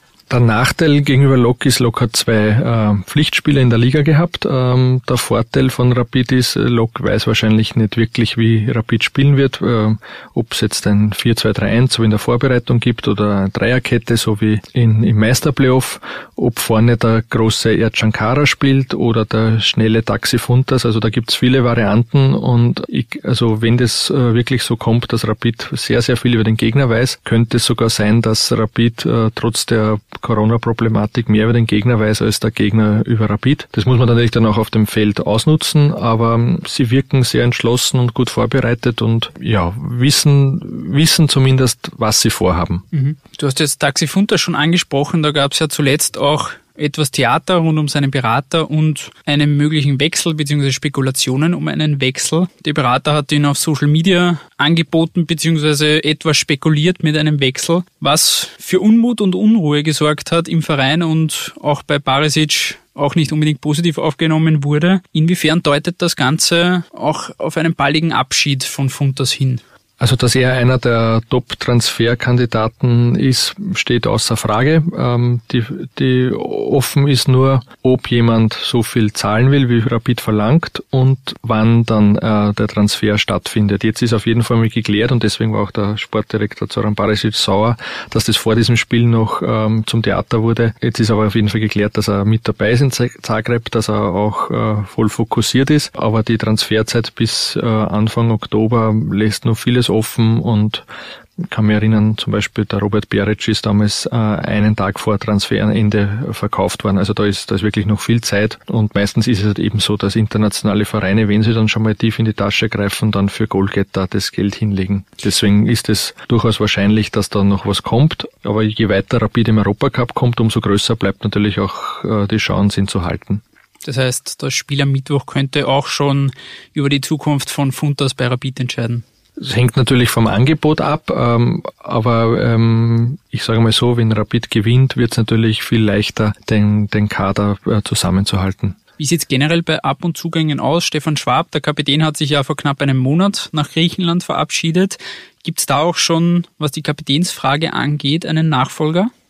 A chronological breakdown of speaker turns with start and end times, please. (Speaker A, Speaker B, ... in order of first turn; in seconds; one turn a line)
Speaker A: 0.3-42.8
Speaker B: 42.9-69.6
Speaker A: 70.0-100.8
Speaker A: 101.4-123.4
Speaker B: 123.8-129.0
Speaker A: 129.4-138.8
Speaker B: 139.0-149.1